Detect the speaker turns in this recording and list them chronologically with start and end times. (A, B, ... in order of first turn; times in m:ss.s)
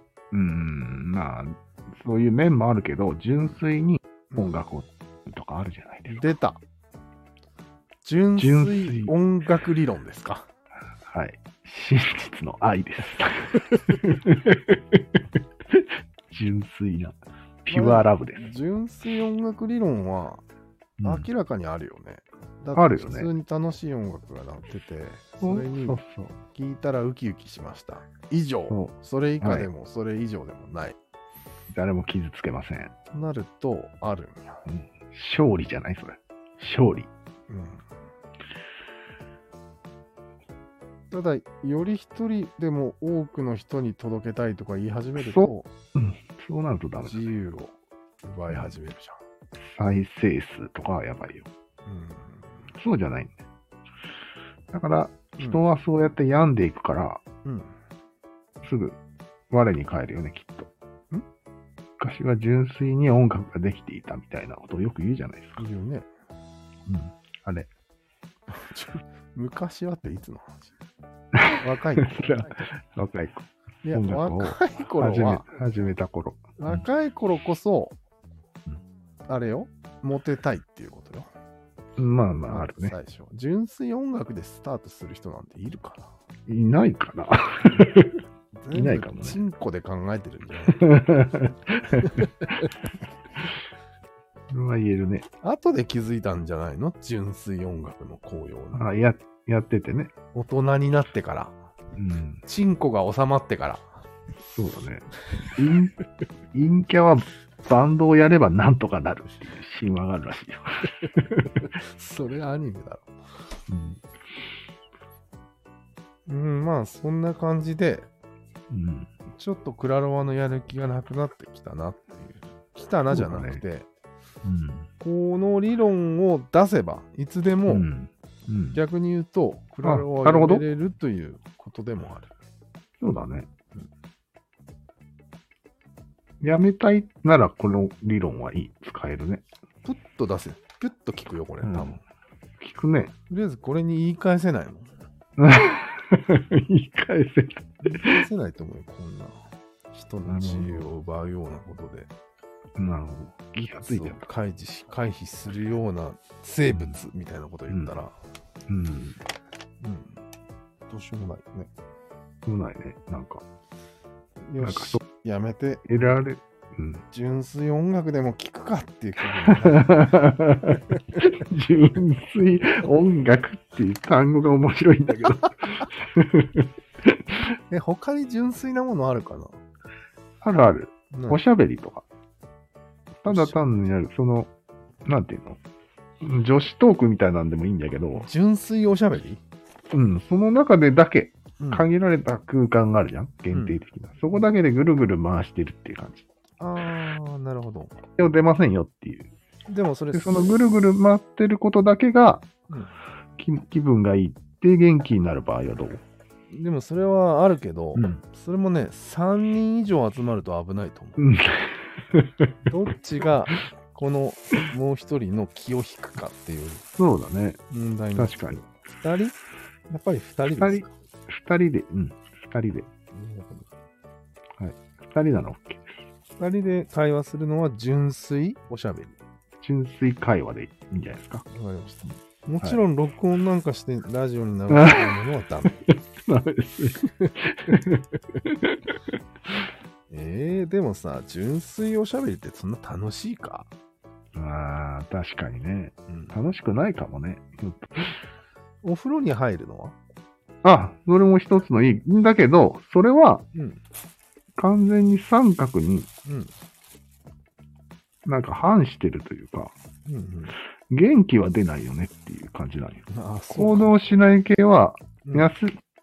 0:00.3-0:06.3 A
0:06.1-0:06.6 B
0:08.0-0:10.5 B
0:08.4-0:09.1 A
0:11.0-0:15.2 A
0:15.7-0:18.5 A
0:17.7-0:20.4 B
0:21.0-0:21.3 A
0:21.0-0:26.0 B
0:22.8-0:23.3 A
0:25.4-0:26.4 A
0:26.5-0:31.0 B
0:28.7-0:29.7 A
0:31.7-0:32.9 A
0:33.1-0:34.6 B
0:34.7-0:37.1 A
0:37.5-0:37.8 B
0:41.1-0:45.7 B
0:45.2-0:47.2 A
0:47.0-0:49.2 B
0:48.5-0:48.7 A
0:49.6-0:51.5 A
0:51.9-0:52.7 B
0:52.8-0:53.3 A
0:54.7-0:57.2 A
0:55.4-0:55.6 B
0:57.4-0:57.7 B
0:58.6-0:59.0 A
0:59.5-1:00.7 A
1:02.0-1:05.6 A
1:05.6-1:06.1 B
1:06.9-1:07.7 A
1:08.5-1:10.7 B
1:11.3-1:16.8 A
1:11.5-1:12.7 B
1:13.8-1:15.5 B
1:16.6-1:18.0 B
1:19.3-1:21.3 B
1:22.0-1:23.0 A
1:22.5-1:26.1 B
1:26.5-1:28.2 A
1:28.6-1:30.9 B
1:28.7-1:29.4 A
1:30.8-1:32.3 A
1:32.0-1:32.7 B
1:34.5-1:35.3 A
1:35.4-1:38.8 B
1:38.7-1:40.1 A
1:40.3-1:41.6 B
1:42.0-1:42.4 A
1:42.4-1:43.9 B
1:44.4-1:46.0 A
1:46.5-1:51.6 A
1:51.6-1:53.1 B
1:53.7-1:54.0 A
1:56.3-1:58.1 B
1:58.7-1:59.1 A
1:59.3-2:03.9 B
2:03.1-2:03.6 A
2:04.4-2:04.9 A
2:05.0-2:07.9 B
2:07.7-2:08.8 A
2:08.7-2:12.3 B
2:09.8-2:10.6 A
2:13.0-2:13.5 A
2:16.4-2:19.4 A
2:19.8-2:22.0 B
2:21.6-2:22.0 A
2:22.6-2:23.1 A
2:23.3-2:24.9 B
2:25.4-2:28.2 A
2:27.8-2:32.1 B
2:30.3-2:30.9 A
2:32.8-2:34.2 A
2:33.6-2:38.2 B
2:38.7-2:39.2 A
2:39.8-2:40.2 B
2:40.9-2:41.7 B
2:42.5-2:43.4 A
2:44.4-2:46.1 B
2:44.6-2:45.0 A
2:45.9-2:47.0 A
2:47.1-2:50.1 B
2:49.6-2:57.4 A
2:50.7-2:51.2 B
2:55.2-2:55.8 B
2:57.7-2:59.6 B
3:00.4-3:02.0 A
3:01.1-3:01.4 B
3:03.2-3:04.5 A
3:03.3-3:03.6 B
3:05.1-3:05.6 A
3:06.2-3:08.3 A
3:08.2-3:09.4 B
3:09.9-3:16.2 A
3:11.6-3:11.9 B
3:13.5-3:13.8 B
3:16.6-3:18.0 B
3:18.2-3:19.3 A
3:19.7-3:20.5 B
3:20.1-3:22.5 A
3:22.7-3:23.0 B
3:23.4-3:26.0 A
3:26.5-3:31.3 B
3:28.0-3:28.2 A
3:31.2-3:32.5 A
3:32.7-3:36.9 B
3:37.0-3:37.6 A
3:37.7-3:39.4 B
3:38.2-3:38.6 A
3:39.9-3:40.9 B
3:40.6-3:42.9 A
3:43.1-3:43.7 B
3:44.6-3:45.9 A
3:46.4-3:49.2 B
3:49.6-3:51.4 A
3:51.5-3:55.8 B
3:54.7-3:59.0 A
4:00.1-4:03.7 B
4:04.4-4:08.2 A
4:06.1-4:06.4 B
4:08.8-4:10.0 B
4:10.6-4:13.4 A
4:13.6-4:13.8 B
4:14.6-4:16.1 A
4:16.2-4:16.5 B
4:18.2-4:19.7 A
4:20.1-4:20.6 B
4:20.9-4:25.8 A
4:23.1-4:24.0 B